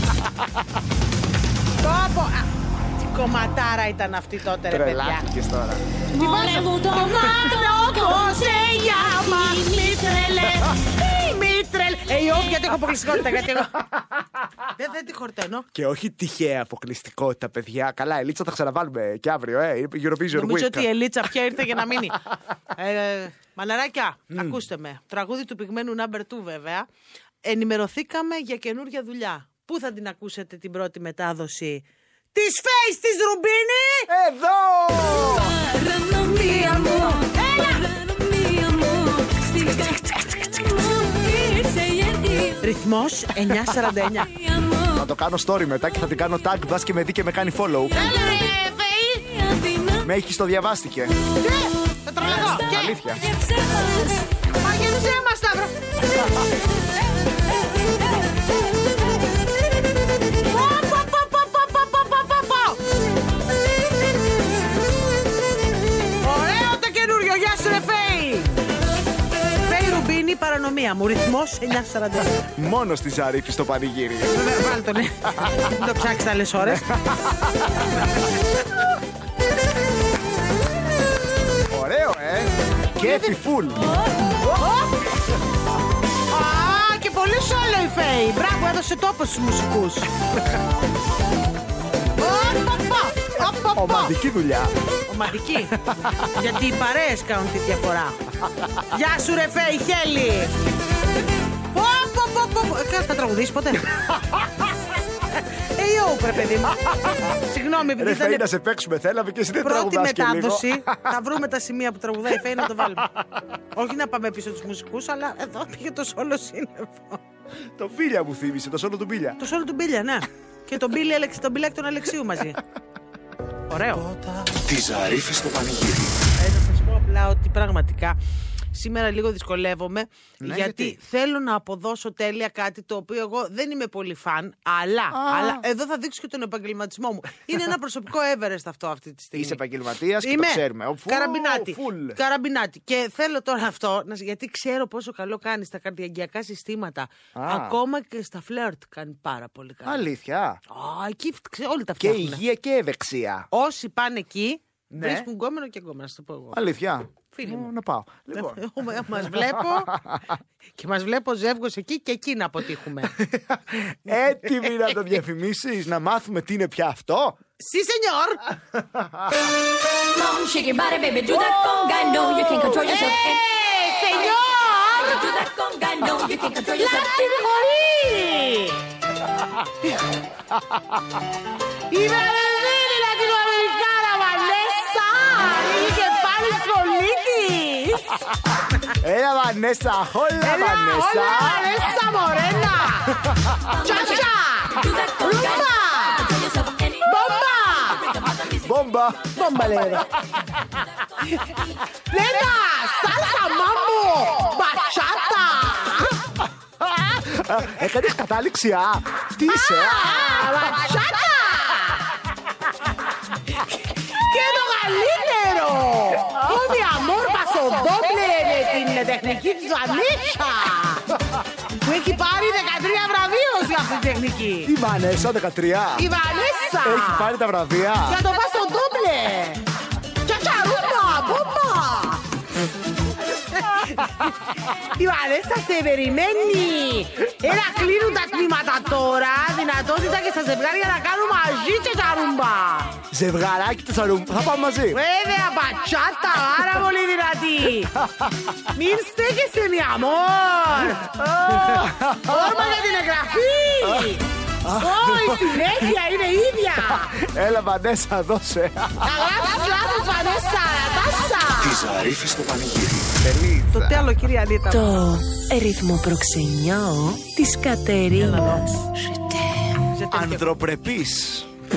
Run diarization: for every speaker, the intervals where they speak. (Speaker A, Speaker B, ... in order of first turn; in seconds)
Speaker A: 1.8-5.2, 6.1-13.8, 14.7-15.7, 20.3-22.2, 22.7-26.9, 27.4-34.1, 36.3-37.8, 42.6-44.3, 47.9-49.2, 51.4-52.8, 54.6-55.7, 60.4-62.8, 66.2-68.6, 69.6-72.4, 74.3-76.8, 83.0-83.3, 84.4-84.9, 86.3-90.1, 92.2-94.1, 95.1-98.2, 98.9-100.5, 101.7-103.9, 105.3-108.5, 109.6-113.1, 113.7-117.2, 119.4-122.6, 123.7-124.1, 126.4-128.2, 128.7-139.6, 140.2-150.1, 150.7-152.4, 153.5-156.6, 157.3-157.7, 158.3-159.9, 160.8-163.1, 167.6-168.4, 172.7-175.2, 176.8-178.8, 181.9-188.2, 190.4-193.2, 193.8-196.3, 197.0-198.1, 199.3-200.1, 202.1-206.2, 209.5-212.1, 213.5-221.1, 221.8-224.7, 225.9-227.3, 228.0-229.6, 230.2-232.3, 233.3-243.0, 244.9-247.9, 248.7-257.2, 259.0-262.0, 263.7-265.1, 268.1-268.8, 269.9-270.6
Speaker B: 4.7-5.8, 15.7-20.9, 24.3-24.6, 34.1-35.6, 44.9-48.0, 50.0-51.1, 52.5-53.2, 72.5-74.5, 76.6-78.0, 81.7-83.9, 93.7-94.7, 95.8-96.3, 107.9-111.1, 112.5-113.4, 117.8-119.4, 130.4-131.0, 135.1-135.6, 139.3-142.2, 147.3-147.8, 149.8-150.6, 152.0-153.5, 154.9-155.3, 156.5-160.3, 163.2-167.4, 168.8-169.3, 180.5-181.1, 188.9-191.7, 198.5-200.0, 206.8-210.7, 224.6-226.1, 226.8-228.2, 243.1-245.0, 247.9-248.5, 250.9-252.8, 253.8-255.9, 256.9-259.2, 263.2-264.2, 270.1-271.5
Speaker C: 6.1-10.6, 35.3-42.7, 44.2-45.1, 47.9-48.5, 49.1-50.1, 52.2-54.3, 169.9-173.5, 174.1-177.6, 193.6-198.8
Speaker D: 124.6-126.2, 261.6-263.1
Speaker E: 264.7-269.2